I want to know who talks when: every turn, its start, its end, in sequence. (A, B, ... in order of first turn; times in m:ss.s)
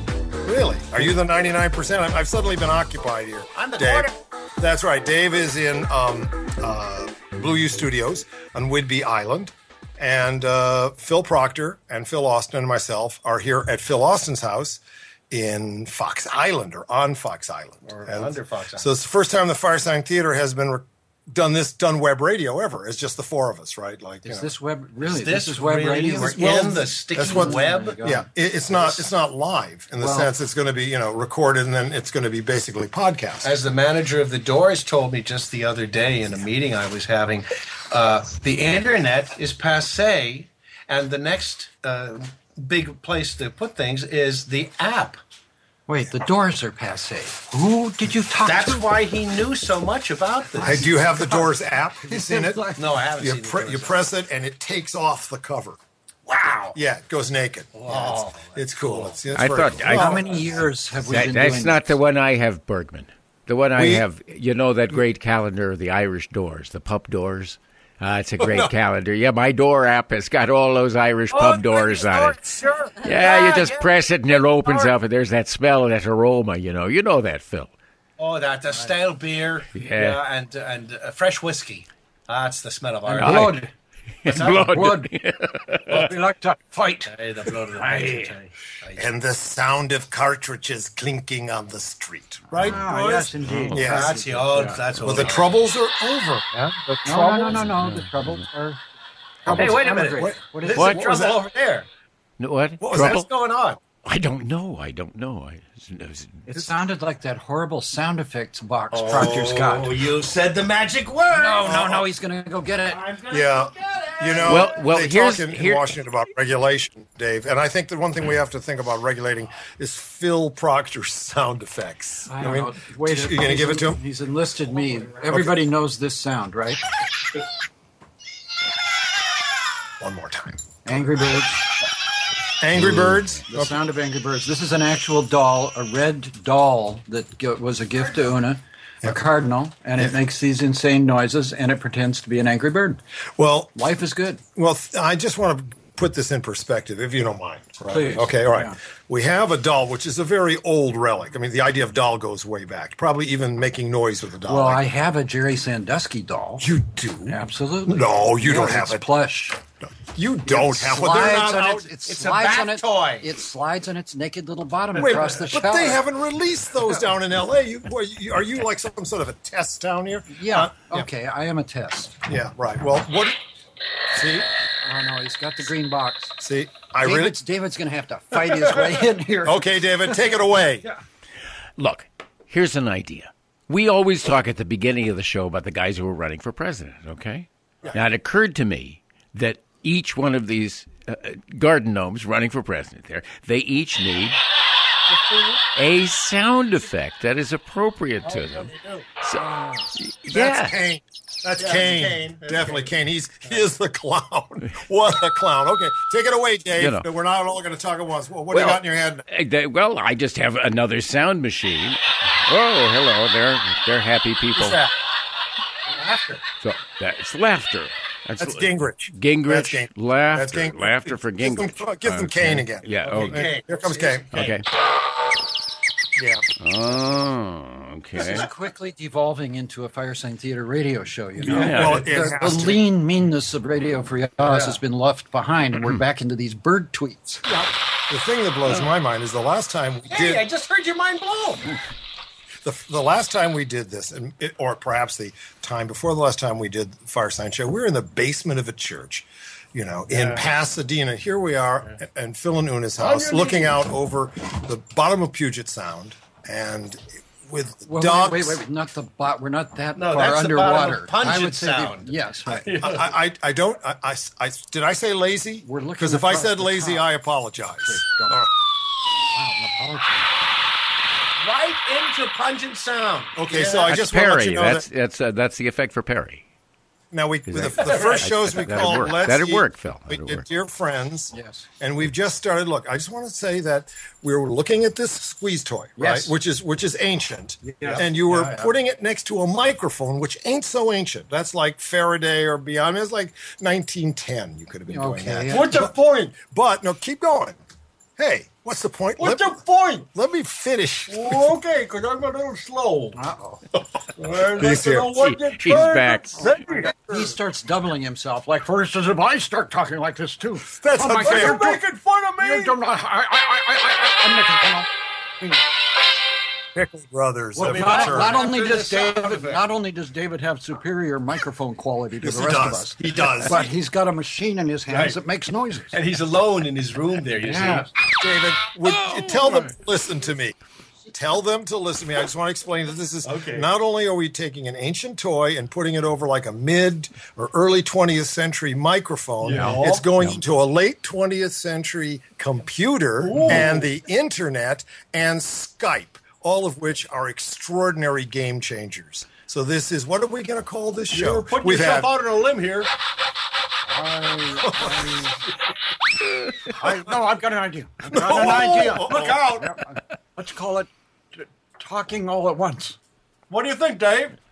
0:00.4-0:24.5 A
0:03.6-0:04.1 B
0:17.8-0:18.9 B
0:24.2-0:28.3 C
0:25.0-0:28.0 B
0:26.2-0:33.5 A
0:30.0-0:30.3 C
0:33.4-0:45.2 B
0:45.9-0:48.9 C
0:48.4-0:50.9 B
0:50.6-0:55.8 A
0:51.0-0:52.8 C
0:52.8-0:54.1 B
0:56.3-0:56.8 B
0:56.7-1:00.6 A
0:57.8-0:59.2 B
0:59.3-1:00.2 D
0:59.9-1:01.9 C
1:01.1-1:12.4 D
1:03.8-1:04.1 A
1:08.4-1:08.7 A
1:11.3-1:15.0 B
1:13.0-1:17.7 D
1:18.2-1:23.6 B
1:19.7-1:20.2 D
1:23.1-1:23.7 C
1:23.2-1:23.6 D
1:24.2-1:26.1 D
1:24.3-1:24.8 B
1:24.6-1:25.1 C
1:25.9-1:28.3 C
1:27.0-1:29.1 B
1:29.0-1:34.2 A
1:32.5-1:35.2 C
1:33.5-1:34.0 D
1:33.8-1:35.6 B
1:35.0-1:36.5 A
1:36.6-1:37.6 B
1:37.0-1:38.8 C
1:37.6-1:38.3 D
1:39.4-1:41.3 C
1:39.4-1:41.9 B
1:39.5-1:39.8 A
1:40.7-1:41.0 D
1:41.0-1:41.4 A
1:42.4-1:43.3 D
1:42.8-1:43.2 A
1:42.8-1:43.8 B
1:44.0-1:46.5 D
1:46.5-1:50.0 C
1:48.9-1:51.8 B
1:51.3-1:53.0 C
1:51.6-1:52.1 A
1:52.9-1:54.7 B
1:53.3-2:04.0 A
1:54.5-1:56.0 D
2:02.3-2:06.8 C
2:05.3-2:05.6 A
2:10.0-2:10.6 A
2:10.8-2:11.7 C
2:12.6-2:13.8 A
2:12.8-2:23.0 C
2:23.4-2:23.8 A
2:23.8-2:24.4 C
2:24.6-2:34.9 A
2:27.9-2:28.8 C
2:34.5-2:36.7 C
2:36.6-2:39.0 A
2:37.3-2:39.6 C
2:39.8-2:41.9 A
2:40.5-2:46.0 C
2:42.1-2:43.3 B
2:45.0-2:51.1 A
2:50.3-2:52.2 C
2:52.2-2:53.4 A
2:54.1-2:54.5 A
2:54.8-2:56.4 C
2:56.4-2:57.4 A
2:57.0-2:59.8 C
2:59.4-3:00.9 A
3:01.8-3:14.4 D
3:15.1-3:15.6 B
3:15.8-3:20.8 D
3:18.2-3:19.1 B
3:20.3-3:29.3 A
3:21.6-3:23.0 B
3:26.8-3:27.0 D
3:28.5-3:34.8 D
3:34.6-3:34.9 A
3:35.9-3:36.4 B
3:36.6-3:43.4 D
3:38.4-3:44.5 A
3:43.0-3:44.6 B
3:44.3-3:44.6 D
3:46.2-3:46.4 A
3:46.6-3:48.5 D
3:48.2-3:57.4 C
3:51.4-3:52.1 D
3:51.4-3:52.8 A
3:54.4-3:54.8 B
3:57.4-4:00.4 A
4:00.1-4:01.8 B
4:02.6-4:18.6 A
4:10.1-4:10.5 B
4:13.0-4:13.8 B
4:17.9-4:22.7 C
4:20.0-4:23.1 B
4:22.8-4:28.5 A
4:25.6-4:27.1 C
4:27.7-4:28.4 C
4:29.2-4:30.4 C
4:31.4-4:33.9 B
4:33.4-4:34.9 A
4:33.8-4:36.4 D
4:37.1-4:57.6 A
4:37.5-4:40.4 D
4:37.8-4:38.2 B
4:41.3-4:41.7 C
4:46.0-4:46.4 C
4:47.6-4:48.1 C
4:47.8-4:48.6 B
4:54.9-4:55.8 C
4:55.5-4:56.4 B
4:58.2-5:01.5 A
4:59.2-5:00.1 B
5:01.1-5:03.2 B
5:03.2-5:03.6 C
5:04.2-5:06.9 B
5:04.5-5:05.8 A
5:05.2-5:06.6 D
5:06.4-5:11.8 C
5:06.6-5:07.3 A
5:10.6-5:12.8 A
5:11.2-5:11.6 B
5:12.4-5:14.9 C
5:16.8-5:18.4 A
5:17.6-5:26.0 C
5:17.6-5:19.6 B
5:22.2-5:23.7 A
5:24.9-5:25.2 B
5:25.9-5:27.9 B
5:27.4-5:27.9 C
5:28.2-5:30.6 A
5:29.1-5:29.7 B
5:31.1-5:52.2 A
5:33.2-5:33.7 B
5:39.4-5:40.0 B
5:39.5-5:40.4 D
5:43.2-5:43.9 B
5:51.1-5:52.9 B
5:53.9-5:55.4 C
5:54.6-5:55.3 A
5:56.7-6:03.0 C
5:58.1-5:59.4 A
5:58.3-5:59.7 B
6:03.5-6:04.4 B